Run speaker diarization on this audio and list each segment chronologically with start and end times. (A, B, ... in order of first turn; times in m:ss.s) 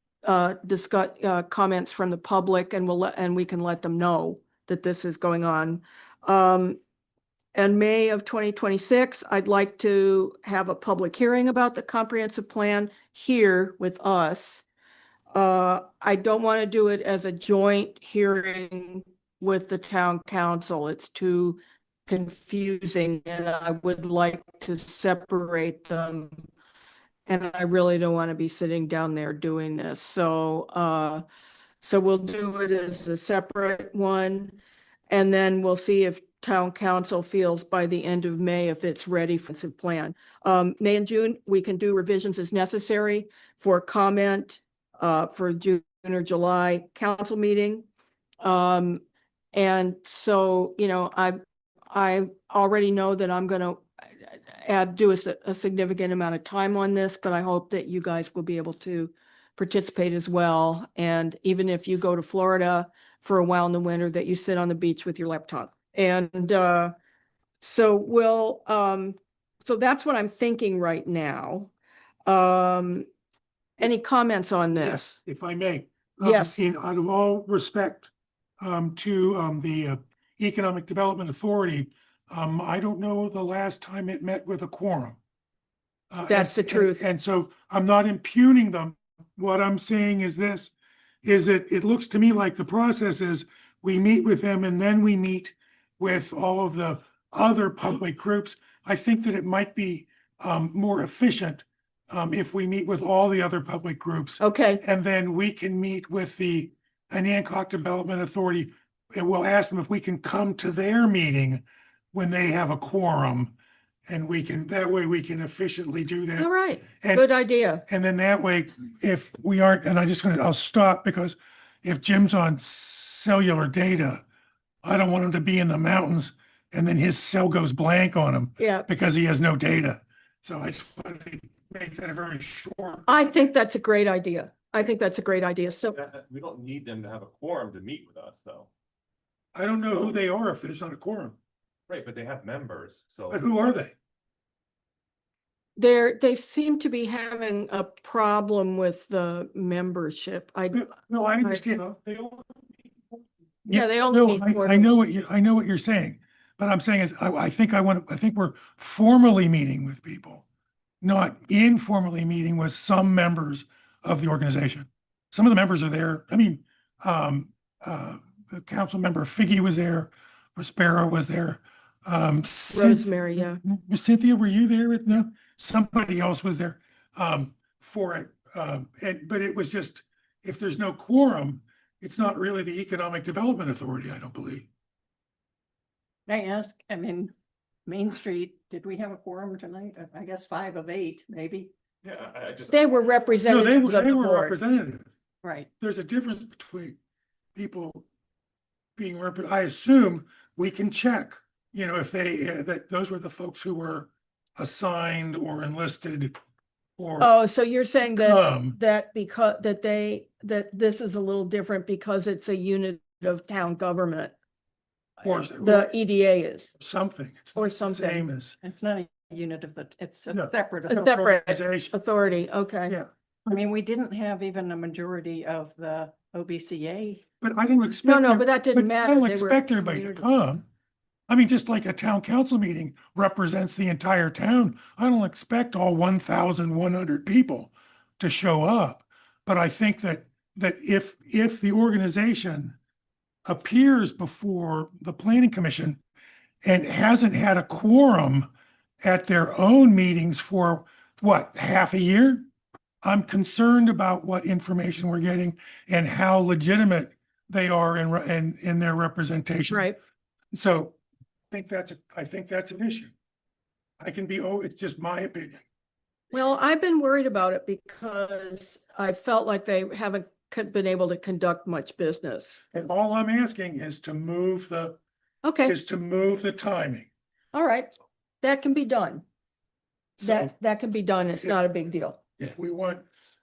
0:00.2-0:06.8 A
0:07.6-0:14.6 A
0:15.3-0:26.4 A
0:27.3-0:31.2 A
0:31.8-0:34.6 A
0:35.1-0:47.9 A
0:48.4-0:49.0 A
0:49.5-0:51.4 A
0:51.9-1:06.9 A
1:07.6-1:11.7 A
1:12.3-1:13.1 A
1:13.8-1:15.0 A
1:14.8-1:25.2 B
1:16.2-1:16.6 A
1:26.1-1:30.7 B
1:26.3-1:27.1 A
1:31.2-1:53.5 B
1:44.4-1:44.8 A
1:54.1-1:57.3 B
1:56.4-1:57.8 A
1:57.9-2:04.2 B
2:04.8-2:13.3 B
2:08.6-2:08.9 A
2:13.1-2:16.0 A
2:15.9-2:18.7 C
2:19.5-2:21.4 B
2:21.9-2:23.4 C
2:23.3-2:23.9 B
2:25.8-2:30.9 A
2:30.7-2:32.0 B
2:32.1-2:32.4 D
2:33.7-2:40.4 B
2:33.7-2:34.9 A
2:41.0-3:04.7 B
2:52.7-2:53.6 A
3:06.3-3:07.3 D
3:07.9-3:12.3 D
3:12.1-3:12.8 C
3:12.7-3:14.6 A
3:13.5-3:15.1 B
3:15.4-3:15.7 D
3:15.8-3:17.0 B
3:17.6-3:18.0 B
3:19.0-3:26.3 B
3:27.0-3:27.3 B
3:27.2-3:34.3 A
3:28.1-3:28.8 B
3:35.2-3:35.9 B
3:35.2-3:36.8 A
3:36.8-3:38.6 B
3:37.6-3:38.3 A
3:38.6-3:41.0 D
3:38.9-3:39.5 C
3:40.3-3:41.9 B
3:40.9-3:43.0 A
3:43.5-3:47.2 D
3:47.4-3:50.6 B
3:48.0-3:50.3 A
3:51.3-4:02.8 B
4:03.5-4:06.0 B
4:06.6-4:08.5 B
4:09.0-4:12.5 B
4:13.0-4:19.9 B
4:19.7-4:20.0 A
4:20.5-4:21.0 B
4:21.5-4:23.1 B
4:24.0-4:25.6 B
4:26.3-4:32.6 A
4:32.7-4:35.0 B
4:35.4-4:35.8 A
4:35.6-4:37.1 B
4:37.5-4:37.9 A
4:38.4-4:39.2 A
4:40.2-4:40.5 B
4:40.2-4:42.2 A
4:42.4-4:43.1 B